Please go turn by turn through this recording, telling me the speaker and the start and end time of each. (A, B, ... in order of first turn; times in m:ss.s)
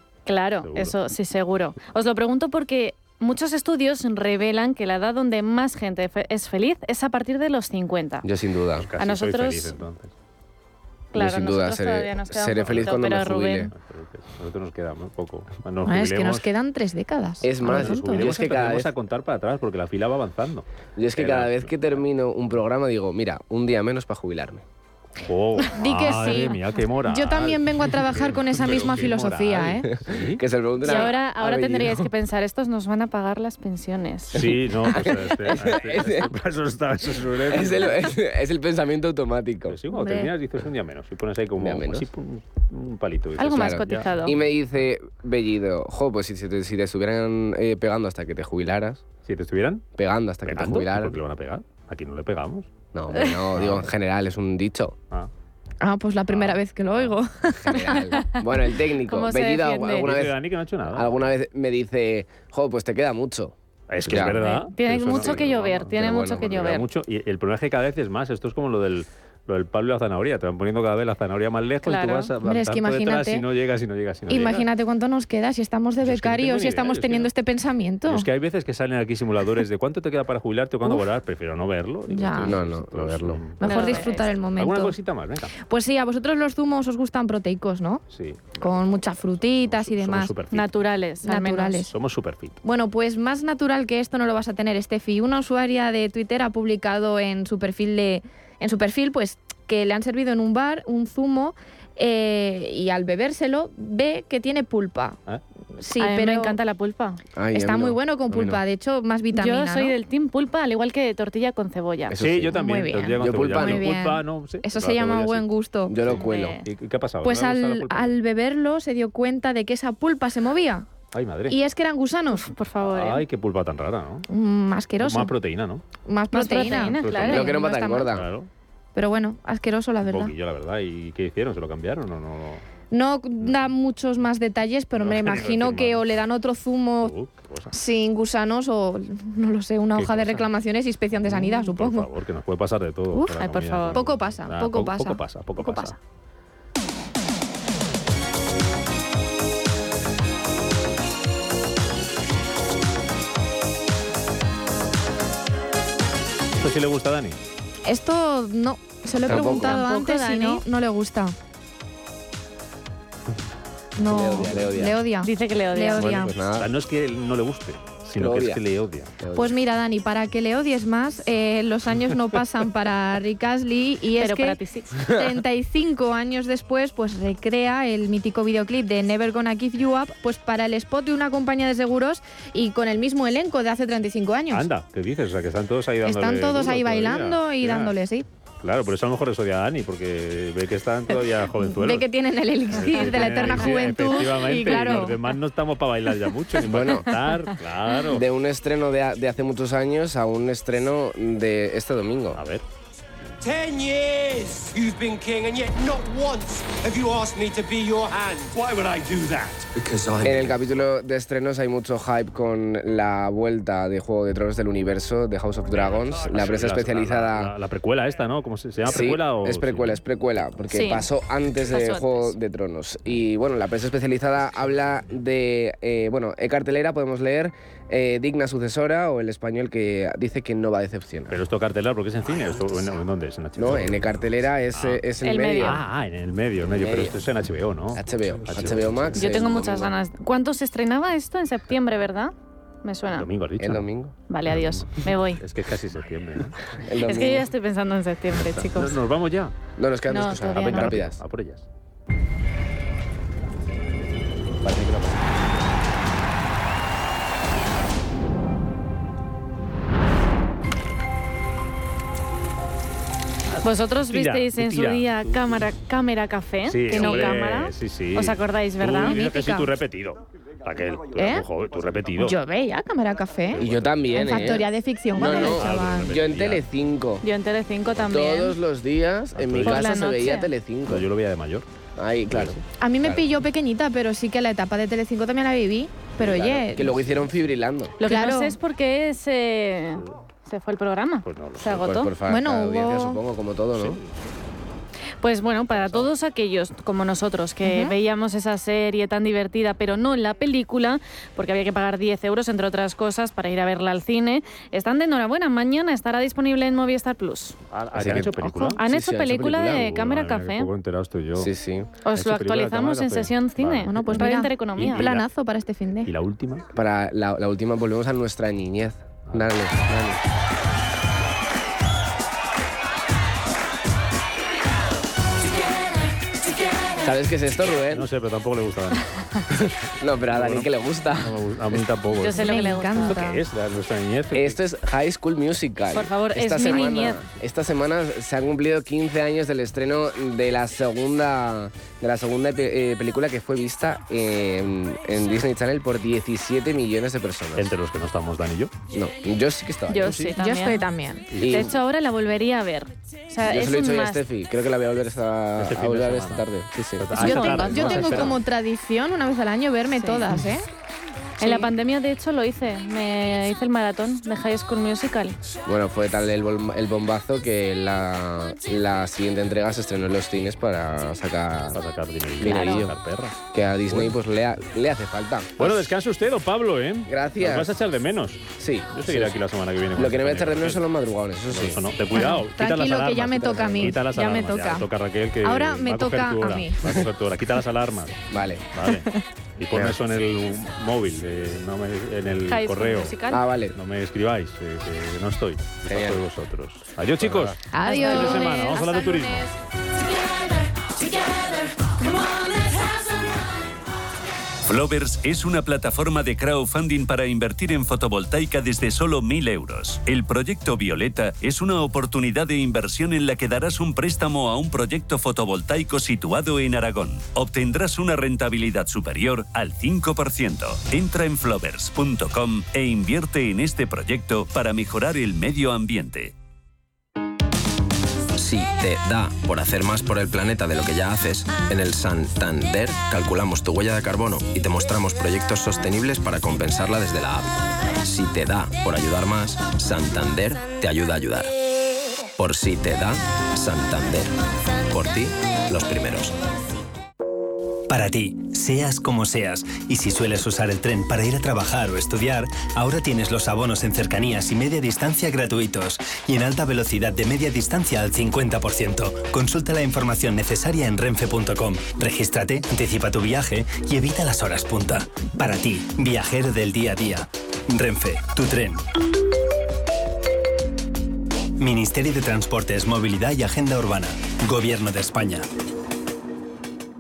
0:00.3-0:08.3 A
0:00.6-0:01.0 B
0:08.2-0:08.9 C
0:08.8-0:10.1 B
0:09.0-0:09.8 A
0:11.1-0:13.7 A
0:11.2-0:13.7 C
0:12.6-0:12.9 B
0:13.7-0:16.5 B
0:15.9-0:18.5 D
0:17.4-0:18.9 C
0:17.6-0:22.0 B
0:21.0-0:24.6 C
0:25.2-0:30.4 B
0:25.8-0:29.9 D
0:29.8-0:32.0 C
0:30.8-0:34.4 A
0:34.3-0:38.1 B
0:34.4-0:36.3 C
0:37.5-0:39.8 C
0:39.7-0:44.2 B
0:39.9-0:40.3 D
0:41.6-0:42.1 C
0:43.4-0:44.4 A
0:43.6-0:49.0 C
0:49.2-0:49.9 B
0:50.0-0:51.2 C
0:50.4-0:52.7 B
0:52.9-0:55.0 C
0:53.2-0:53.4 A
0:53.5-0:53.9 B
0:55.8-0:57.9 D
0:56.3-0:57.2 B
0:57.6-1:00.4 C
0:57.9-1:00.1 A
0:59.9-1:01.2 B
1:00.9-1:04.4 C
1:03.9-1:14.7 B
1:04.1-1:06.8 A
1:05.1-1:06.5 C
1:11.8-1:12.3 A
1:12.4-1:13.5 D
1:14.3-1:18.3 D
1:16.0-1:17.3 B
1:18.1-1:25.5 B
1:22.1-1:22.6 D
1:22.4-1:23.5 C
1:23.6-1:25.0 D
1:23.6-1:24.3 A
1:25.5-1:28.0 D
1:28.1-1:28.8 B
1:28.6-1:30.4 D
1:29.6-1:30.7 B
1:30.5-1:31.8 A
1:31.2-1:31.9 D
1:31.8-1:32.6 B
1:32.6-1:45.2 D
1:45.8-1:46.6 D
1:46.0-1:47.2 A
1:47.4-1:48.6 C
1:47.5-1:50.0 D
1:49.3-1:52.2 A
1:52.1-1:52.6 C
1:52.2-1:55.5 B
1:52.5-1:56.0 D
1:53.2-1:53.8 C
1:55.9-1:56.6 C
1:56.0-1:58.2 B
1:56.2-1:56.6 A
1:57.2-2:00.9 D
2:01.1-2:01.6 B
2:01.5-2:02.5 D
2:02.3-2:03.2 A
2:02.8-2:04.2 B
2:04.3-2:05.3 D
2:05.0-2:05.8 B
2:06.1-2:08.2 D
2:06.3-2:07.5 A
2:06.8-2:08.5 B
2:07.3-2:08.3 C
2:09.0-2:10.3 D
2:10.0-2:12.6 B
2:12.9-2:17.1 D
2:13.4-2:13.7 B
2:15.0-2:16.1 B
2:17.0-2:17.8 B
2:17.7-2:22.1 D
2:20.0-2:20.5 B
2:21.2-2:26.0 B
2:23.3-2:24.0 A
2:23.9-2:25.7 D
2:36.6-2:37.4 B
2:37.8-2:41.4 D
2:39.3-2:39.8 C
2:39.3-2:40.6 A
2:44.0-2:46.4 D
2:44.1-2:45.0 C
2:44.4-2:44.7 B
2:45.2-2:46.2 A
2:46.0-2:46.7 C
2:46.6-2:49.1 B
2:48.2-2:48.6 C
2:49.2-2:49.5 C
2:49.4-3:04.7 D
2:54.2-2:54.9 A
3:04.5-3:08.0 B
3:06.0-3:08.3 D
3:08.6-3:12.1 B
3:11.5-3:15.2 D
3:12.7-3:18.2 B
3:12.8-3:15.1 A
3:16.7-3:17.1 C
3:18.1-3:22.4 C
3:22.3-3:22.6 B
3:23.4-3:30.5 E
3:30.2-3:37.5 C
3:35.7-3:40.0 B
3:38.9-3:51.4 C
3:40.7-3:41.1 A
3:41.6-3:42.4 A
3:51.3-3:55.0 B
3:53.6-3:55.8 C
3:55.2-3:55.8 A
3:55.6-3:59.3 B
3:56.8-3:57.2 C
3:57.9-3:59.9 C
3:59.1-4:03.3 A
4:03.1-4:03.9 B
4:03.6-4:04.2 C
4:04.3-4:05.4 A
4:04.5-4:06.8 B
4:06.8-4:07.5 C
4:07.0-4:09.0 A
4:08.4-4:09.5 B
4:09.8-4:11.2 C
4:10.1-4:11.0 A
4:10.6-4:11.7 B
4:14.6-4:15.1 B
4:23.6-4:29.2 A
4:23.6-4:25.5 B
4:26.7-4:32.4 B
4:27.0-4:27.4 D
4:29.0-4:29.7 D
4:31.2-4:31.4 D
4:32.2-4:33.6 D
4:33.5-4:34.6 B
4:33.6-4:34.6 C
4:34.1-4:36.1 D
4:35.2-4:37.2 C
4:35.3-4:36.7 B
4:37.2-4:38.6 A
4:38.0-4:41.0 C
4:39.3-4:39.9 B
4:39.6-4:40.5 A
4:40.9-4:41.7 B
4:42.0-4:43.3 C
4:42.3-4:42.6 B
4:42.7-4:47.0 D
4:46.2-4:48.0 C
4:46.9-4:47.2 B
4:48.0-4:52.2 A
4:48.0-4:48.6 D
4:51.2-4:51.8 B
4:51.7-4:54.0 C
4:52.2-4:53.2 D
4:53.7-4:54.1 B
4:55.2-5:07.6 A
4:55.7-4:56.1 B
4:57.6-4:58.0 D
5:07.7-5:08.8 B
5:07.9-5:09.9 C
5:08.4-5:10.7 A
5:09.7-5:11.5 B
5:11.4-5:12.0 C
5:12.0-5:15.1 A
5:12.1-5:15.2 B
5:13.8-5:16.1 D
5:16.0-5:16.7 B
5:16.7-5:20.2 C
5:27.0-5:28.1 C
5:27.8-5:29.7 B
5:29.6-5:31.9 C
5:30.3-5:34.6 B
5:32.2-5:33.3 A
5:32.3-5:33.4 D
5:34.3-5:47.7 C
5:35.9-5:37.2 A
5:47.6-5:48.7 B
5:48.9-5:50.3 C
5:49.9-5:50.8 A
5:50.2-5:51.3 D
5:51.3-5:51.7 B
5:51.4-5:51.7 C
5:51.4-5:54.2 A
5:53.5-5:58.2 C
5:55.6-5:58.4 B
5:57.1-5:58.3 A
5:57.2-6:00.7 D
5:59.9-6:00.3 A
6:01.4-6:05.4 A
6:05.7-6:11.8 C
6:11.7-6:14.2 B
6:12.4-6:13.0 C
6:12.4-6:12.8 A
6:13.5-6:15.9 C
6:15.6-6:20.9 B
6:17.1-6:17.8 C
6:18.6-6:19.4 C
6:20.0-6:21.8 C
6:21.5-6:33.2 B
6:22.1-6:24.9 D
6:23.4-6:24.0 C
6:25.4-6:26.8 D
6:28.3-6:28.7 C
6:29.7-6:30.0 C
6:32.5-6:33.5 A
6:33.3-6:33.8 C
6:33.7-6:39.5 B
6:35.9-6:36.2 C
6:37.2-6:37.6 C
6:37.7-6:39.2 D
6:37.8-6:39.5 A
6:44.7-7:06.3 F
7:08.4-7:21.5 G
7:22.4-7:24.4 G
7:24.9-7:26.4 G
7:27.9-7:48.8 H
7:51.6-7:55.5 H